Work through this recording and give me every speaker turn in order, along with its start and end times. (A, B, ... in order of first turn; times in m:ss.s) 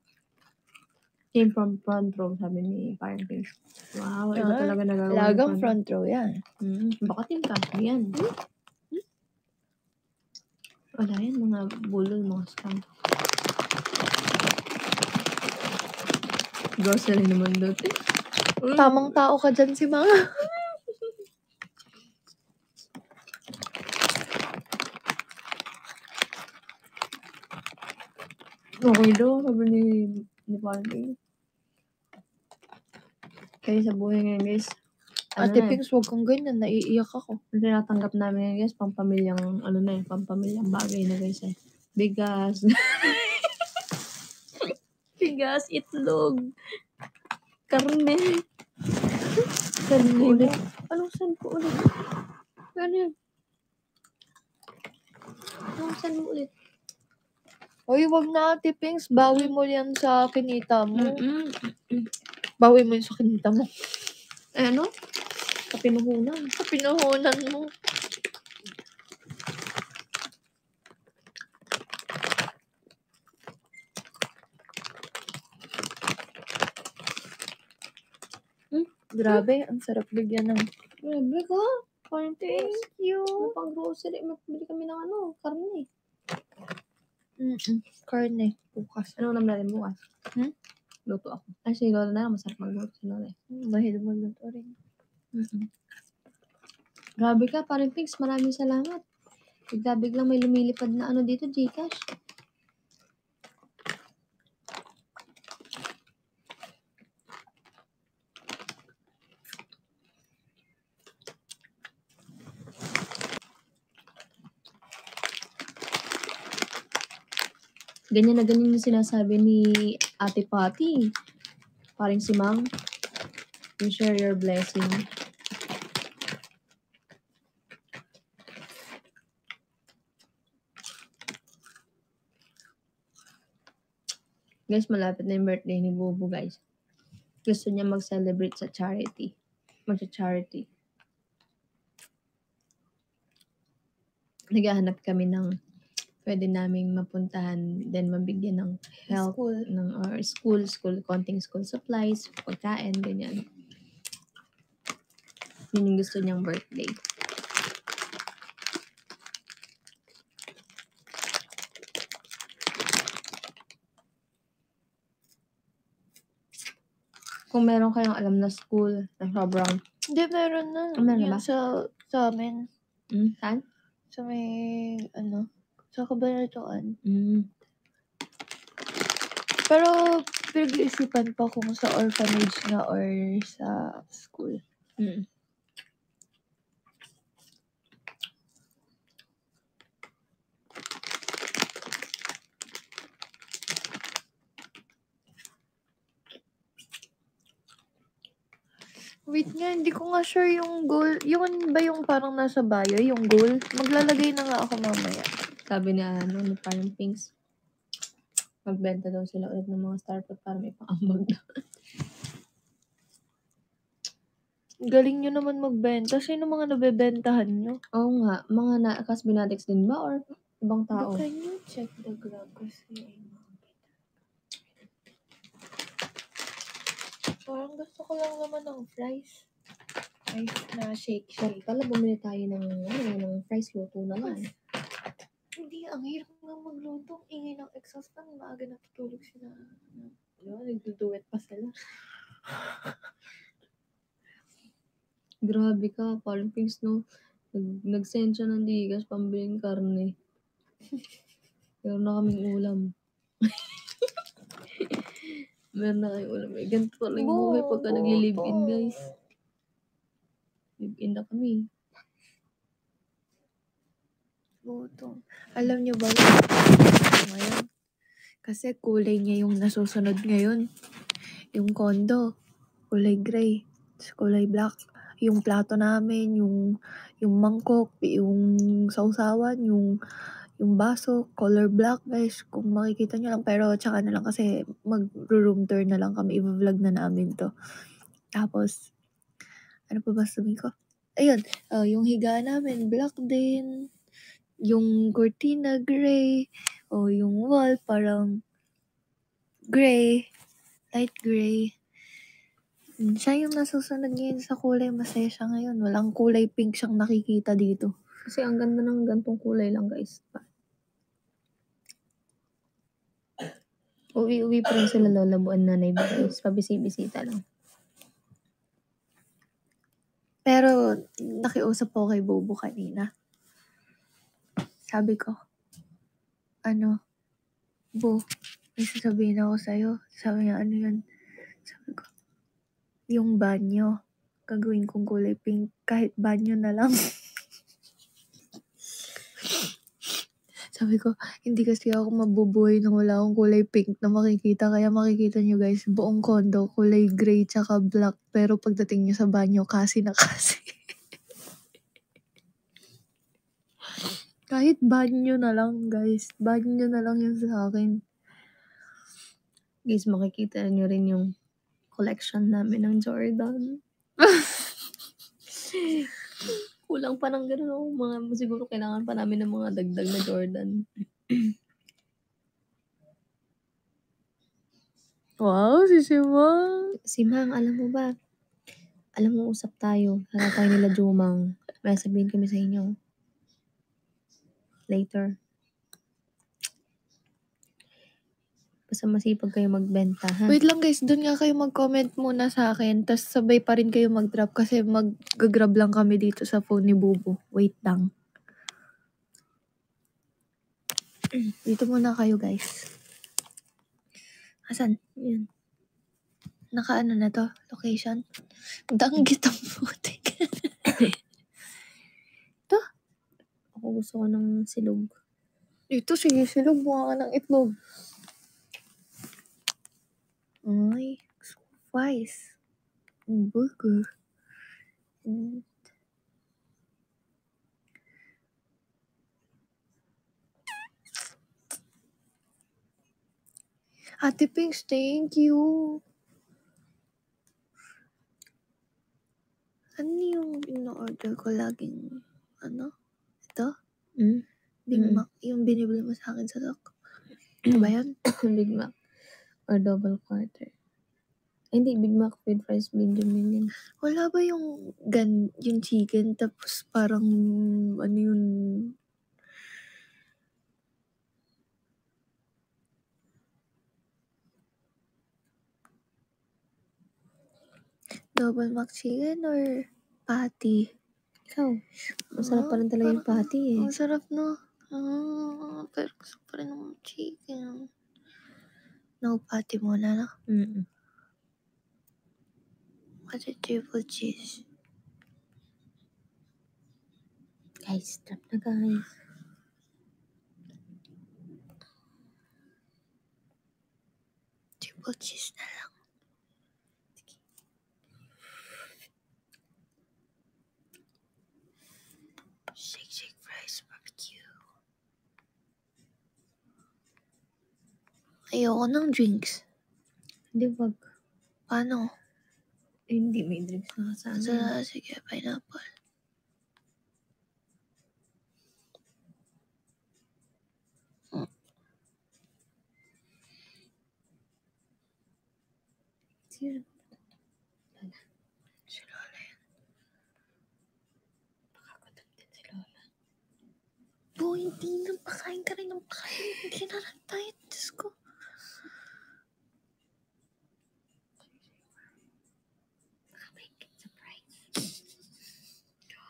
0:01.4-0:05.8 A
0:04.4-0:06.4 B
0:06.6-0:08.2 A
0:11.0-0:12.8 A
0:16.8-0:17.9 A
0:18.6-0:19.2 A
0:18.8-0:20.6 B
0:28.8-0:31.2 A
0:33.6-0:34.7 A
0:35.4-0:37.4 B
0:35.4-0:35.8 A
0:37.5-0:43.3 A
0:45.2-0:46.4 A
0:47.7-0:48.4 A
0:49.9-0:50.6 B
0:49.9-0:51.9 A
0:52.8-0:53.1 A
0:55.7-0:56.5 A
0:57.9-1:01.2 B
1:00.9-1:02.1 A
1:02.6-1:03.7 B
1:04.6-1:04.9 A
1:05.7-1:06.5 A
1:06.6-1:07.7 B
1:18.7-1:19.4 A
1:19.1-1:20.7 B
1:21.0-1:22.8 A
1:22.5-1:23.5 B
1:23.4-1:25.9 A
1:27.4-1:29.2 B
1:29.2-1:30.0 A
1:31.1-1:33.3 A
1:33.5-1:34.8 B
1:35.3-1:35.7 A
1:37.2-1:39.0 A
1:39.7-1:42.0 A
1:58.2-2:01.0 A
2:02.0-2:02.7 A
2:03.8-2:05.0 A
2:14.7-2:16.6 A
2:17.5-2:19.4 A
2:19.9-2:20.7 A
2:24.5-2:25.5 A
2:26.2-2:33.5 A
2:29.1-2:29.7 B
2:35.7-2:37.0 A
2:47.5-2:49.8 A
2:50.1-2:52.7 B
2:51.0-2:51.4 A
2:53.1-2:53.6 A
2:54.1-2:57.0 B
2:57.0-2:57.5 A
2:59.7-3:04.6 B
3:05.0-3:05.2 A
3:19.3-3:25.3 B
3:25.7-3:27.3 A
3:28.7-3:31.4 A
3:34.9-3:37.8 B
3:38.0-3:41.2 A
3:40.9-3:43.8 B
3:47.4-3:49.4 B
3:50.3-3:51.7 B
3:51.4-3:54.5 A
3:55.6-4:01.7 B
4:05.4-4:07.0 A
4:07.5-4:10.2 A
4:11.8-4:12.9 A
4:14.9-4:19.0 A
4:17.2-4:19.0 B
4:20.8-4:21.6 A
4:24.7-4:27.7 B
4:28.4-4:30.6 B
4:31.5-4:32.2 B
4:32.9-4:36.6 B
4:37.2-4:39.9 B
4:40.6-4:47.5 B
4:48.3-4:48.8 B
4:49.9-4:53.7 B
4:54.7-4:58.3 B
4:59.7-5:00.2 B
5:00.9-5:01.7 B
5:03.0-5:07.9 B
5:08.3-5:10.5 A
5:14.2-5:17.4 A
5:20.5-5:23.1 B
5:24.9-5:25.4 B
5:26.7-5:26.9 B
5:28.8-5:31.0 B
5:31.7-5:32.1 B
5:33.1-5:33.9 B
5:34.5-5:37.2 B
5:40.8-5:50.8 B
5:54.5-5:58.0 B
5:59.9-6:01.3 A
6:01.9-6:03.8 A
6:05.8-6:06.1 B
6:06.9-6:11.4 A
6:15.4-6:16.9 B
6:17.0-6:18.1 A
6:19.2-6:22.9 A
6:24.9-6:25.3 A
6:28.9-6:30.6 A
6:30.5-6:38.1 B
6:41.7-6:42.8 B
6:44.7-6:44.9 B
6:45.2-6:45.4 A
6:46.8-6:48.2 B
6:48.9-6:51.1 B
6:53.8-6:55.2 A
6:55.9-6:57.8 B
7:00.7-7:02.6 B
7:03.3-7:04.1 B
7:05.2-7:05.7 B
7:14.2-7:16.0 B
7:20.0-7:22.9 B
7:24.2-7:25.2 A
7:24.9-7:26.9 B
7:27.6-7:28.9 A
7:27.7-7:28.1 B
7:29.7-7:30.7 A
7:31.8-7:33.7 A
7:34.0-7:38.9 B
7:48.3-7:50.9 B
7:51.5-7:51.8 A
7:52.3-7:57.9 B
7:52.4-7:53.9 A
7:59.2-8:00.3 B
8:00.5-8:00.8 A
8:03.3-8:04.6 B
8:07.8-8:09.1 A
8:14.8-8:15.9 B
8:22.8-8:24.5 B
8:28.5-8:29.6 B
8:30.6-8:31.0 A
8:31.7-8:32.1 B
8:33.1-8:34.7 A
8:34.4-8:35.9 B
8:49.0-8:49.4 B
8:52.0-8:53.0 A
8:54.4-8:58.1 B
9:03.6-9:04.3 A